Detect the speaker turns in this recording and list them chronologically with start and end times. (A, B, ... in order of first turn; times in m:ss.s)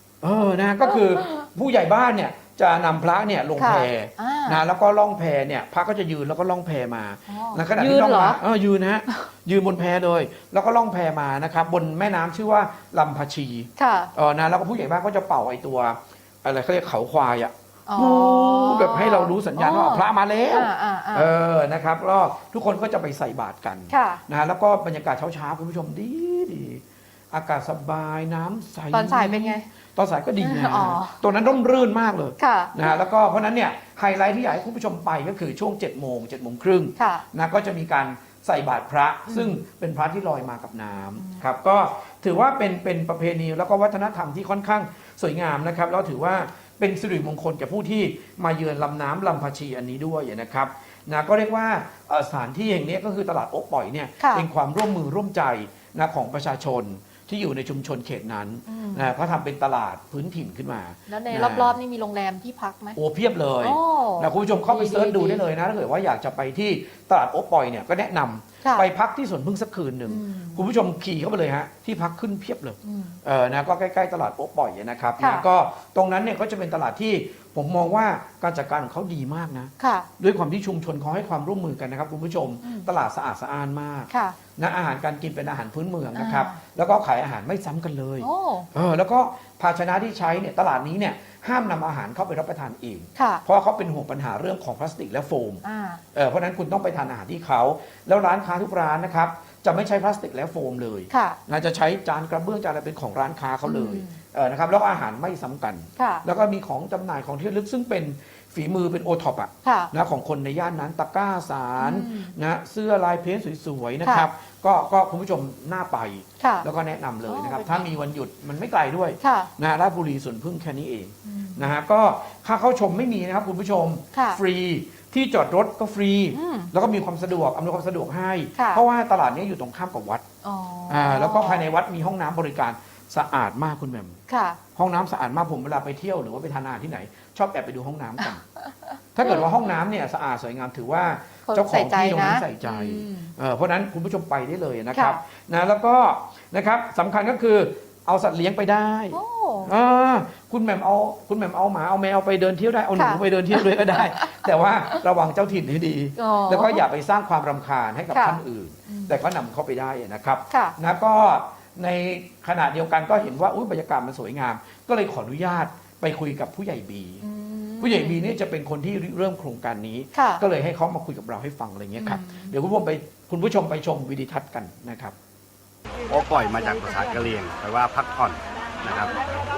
0:00.2-1:01.8 A
0:00.9-0:01.3 B
0:03.6-0:04.6 B
0:07.3-0:08.4 B
0:13.8-0:14.1 B
0:17.9-0:21.3 B
0:23.9-0:24.2 B
0:28.9-0:29.6 B
0:30.4-0:31.2 B
0:32.4-0:32.9 B
0:37.0-0:37.2 B
0:39.3-0:39.5 B
0:54.2-0:54.4 B
0:58.7-0:59.1 B
1:01.1-1:03.0 B
1:03.0-1:35.6 A
1:03.6-1:05.4 B
1:08.6-1:08.9 B
1:10.1-1:10.6 B
1:12.8-1:13.2 B
1:15.2-1:15.4 B
1:19.8-1:20.1 B
1:22.6-1:22.9 B
1:24.1-1:24.4 B
1:26.2-1:26.6 B
1:28.2-1:28.7 B
1:33.2-1:33.4 B
1:35.6-1:36.0 B
1:36.1-2:10.2 A
1:41.1-1:41.4 B
1:43.6-1:44.2 B
1:46.0-1:46.2 B
1:49.6-1:49.9 B
1:51.8-1:52.3 B
1:56.4-1:56.6 B
1:57.3-1:57.8 B
1:59.2-1:59.5 B
2:01.2-2:01.7 B
2:04.1-2:04.4 B
2:06.3-2:06.7 B
2:08.6-2:08.8 B
2:10.4-2:11.6 B
2:10.9-2:14.2 A
2:14.3-2:14.6 B
2:14.8-2:18.4 A
2:19.1-2:47.2 A
2:19.2-2:19.5 B
2:21.5-2:23.3 B
2:24.9-2:25.2 B
2:29.1-2:29.7 B
2:33.0-2:34.4 B
2:36.2-2:36.8 B
2:38.1-2:39.1 B
2:40.5-2:40.8 B
2:47.2-2:48.2 B
2:47.8-2:55.1 A
2:50.1-2:50.4 B
2:52.0-2:52.5 B
2:56.1-2:59.1 C